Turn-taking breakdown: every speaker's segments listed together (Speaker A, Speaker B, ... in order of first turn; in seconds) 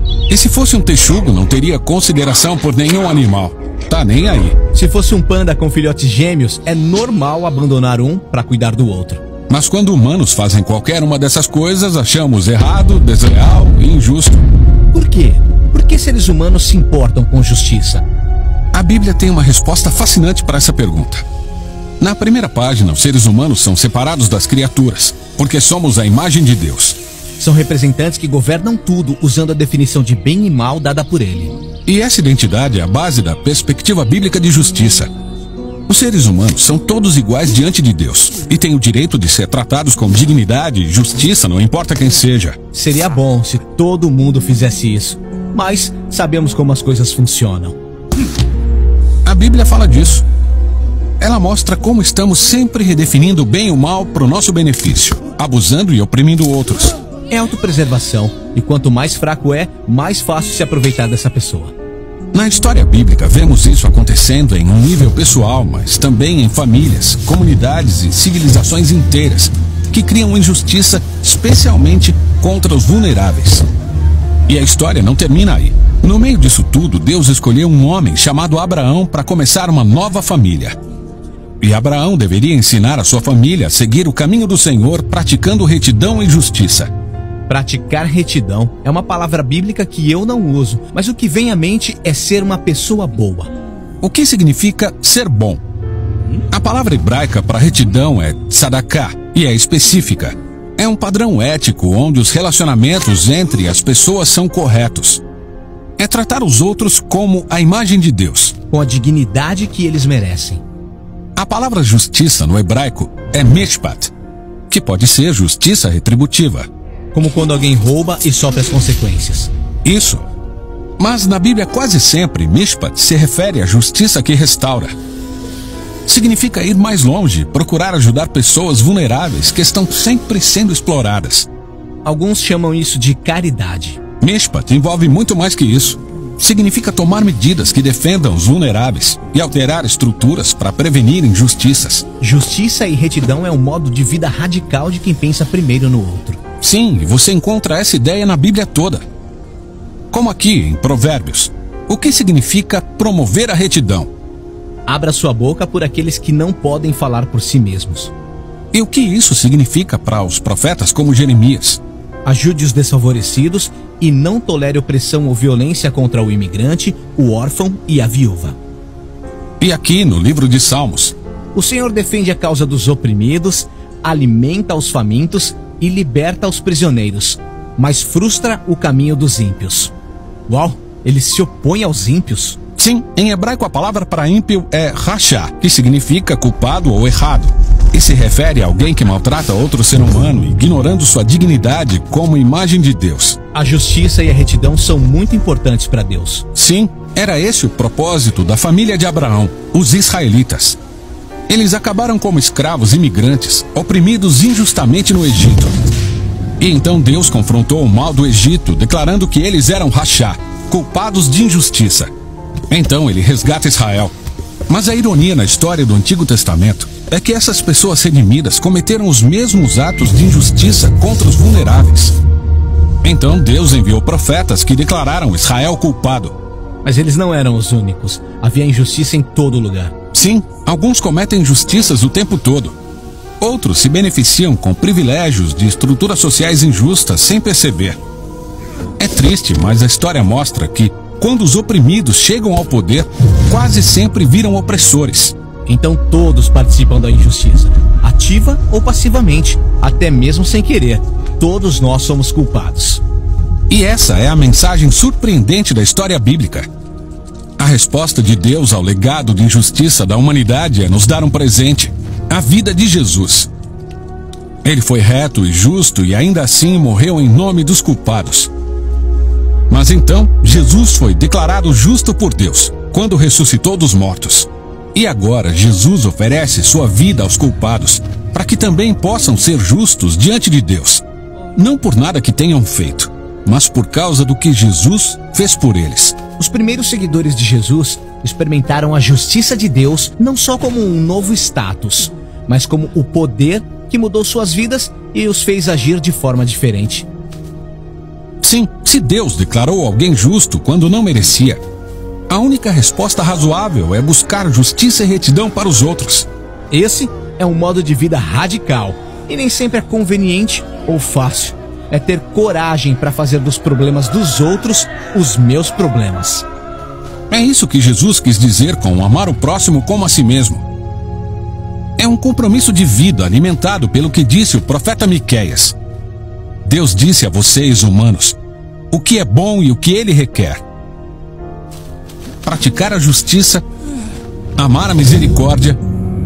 Speaker A: 0.3-4.6, 9.5-14.4, 18.7-21.2, 22.0-27.0, 31.9-35.1, 35.9-42.6, 49.2-50.2, 51.2-57.0, 62.3-73.7, 74.5-80.8, 81.6-86.9, 94.0-95.6, 96.5-105.2, 106.0-108.5, 111.4-114.1, 114.7-116.7, 119.8-120.2, 121.0-125.0, 126.1-131.5, 134.2-142.0, 146.6-149.0, 150.1-154.1, 158.7-161.8, 169.6-171.2, 182.8-193.4, 196.6-200.8, 201.5-205.8, 206.6-212.1, 212.7-214.1, 214.7-222.2, 223.0-226.3, 230.1-232.8, 233.4-238.0, 239.0-245.3, 253.7-256.7, 257.6-263.5, 264.6-268.5, 269.7-281.0, 281.6-286.2, 298.4-301.6, 302.3-306.3, 317.3-320.6, 322.0-325.8, 326.6-328.4, 328.9-330.6, 332.4-333.6, 334.6-335.8
Speaker B: 4.7-9.2, 14.9-18.1, 27.4-31.5, 42.7-47.8, 57.3-61.7, 87.5-93.5, 108.7-110.6, 117.1-119.5, 132.1-134.0, 142.2-146.4, 154.9-158.1, 162.2-168.6, 171.5-179.9, 180.5-182.6, 193.5-196.5, 226.8-229.9, 245.7-253.0, 286.4-297.1, 306.7-316.5